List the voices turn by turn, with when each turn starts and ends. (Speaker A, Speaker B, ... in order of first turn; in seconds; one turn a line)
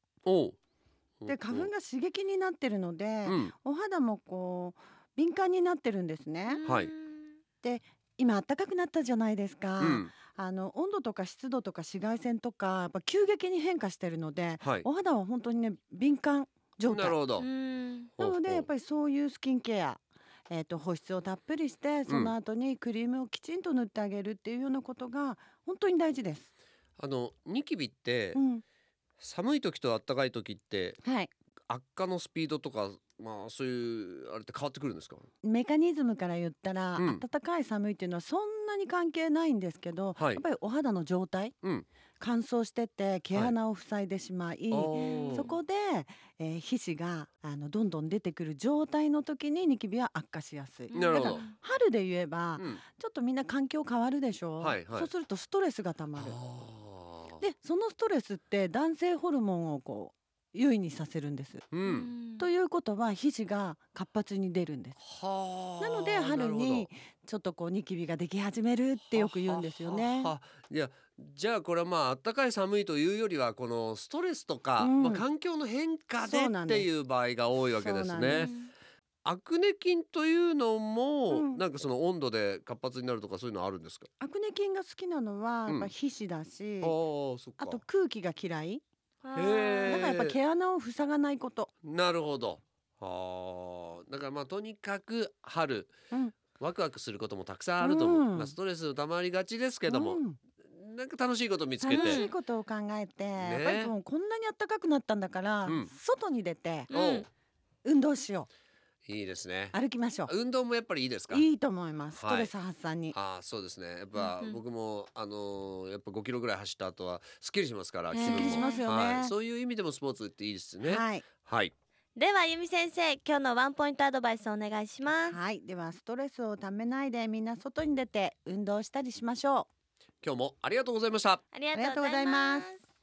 Speaker A: 0.2-0.6
Speaker A: 1.2-1.7
Speaker B: 1.3-6.6
Speaker A: 3.2-3.5
Speaker C: 6.5-7.4
Speaker A: 6.7-6.9
Speaker B: 7.6-17.2
Speaker A: 9.8-10.1
Speaker A: 16.9-17.5
Speaker C: 17.4-18.1
Speaker A: 18.2-18.7
Speaker B: 18.2-26.5
Speaker A: 22.1-22.3
Speaker A: 27.0-28.4
Speaker B: 28.4-28.6
Speaker A: 29.2-31.0
Speaker B: 31.0-31.3
Speaker A: 31.7-35.3
Speaker B: 35.4-41.5
Speaker A: 37.0-37.2
Speaker A: 40.2-40.4
Speaker B: 42.2-56.4
Speaker A: 44.7-45.5
Speaker C: 45.0-45.6
Speaker C: 50.9-51.5
Speaker A: 50.9-51.4
Speaker A: 52.6-52.8
Speaker A: 54.6-55.1
Speaker A: 56.2-57.4
Speaker B: 57.4-61.7
Speaker A: 61.7-62.1
Speaker C: 61.9-62.5
Speaker B: 62.4-65.0
Speaker A: 65.0-66.9
Speaker B: 65.8-70.3
Speaker A: 69.1-78.5
Speaker B: 74.8-75.2
Speaker B: 76.2-76.9
Speaker B: 77.8-78.5
Speaker C: 78.4-78.7
Speaker A: 79.2-84.1
Speaker B: 81.3-81.6
Speaker B: 84.2-87.0
Speaker A: 86.8-87.8
Speaker B: 87.6-88.8
Speaker C: 89.2-90.0
Speaker A: 89.3-90.4
Speaker B: 89.8-91.7
Speaker A: 91.8-95.9
Speaker A: 96.6-102.2
Speaker B: 97.8-98.5
Speaker B: 99.9-100.4
Speaker B: 101.8-106.9
Speaker C: 101.9-102.3
Speaker A: 103.4-103.9
Speaker A: 105.7-105.9
Speaker C: 106.9-107.3
Speaker A: 106.9-107.3
Speaker B: 107.8-108.5
Speaker A: 109.1-109.8
Speaker B: 109.7-110.3
Speaker A: 110.3-111.5
Speaker B: 111.3-113.2
Speaker A: 112.2-112.5
Speaker A: 113.1-121.7
Speaker C: 114.2-114.6
Speaker C: 118.1-118.8
Speaker B: 118.2-119.3
Speaker B: 120.8-121.2
Speaker C: 122.2-125.4
Speaker B: 125.3-129.7
Speaker A: 130.2-131.4
Speaker C: 131.5-132.8
Speaker B: 131.7-132.7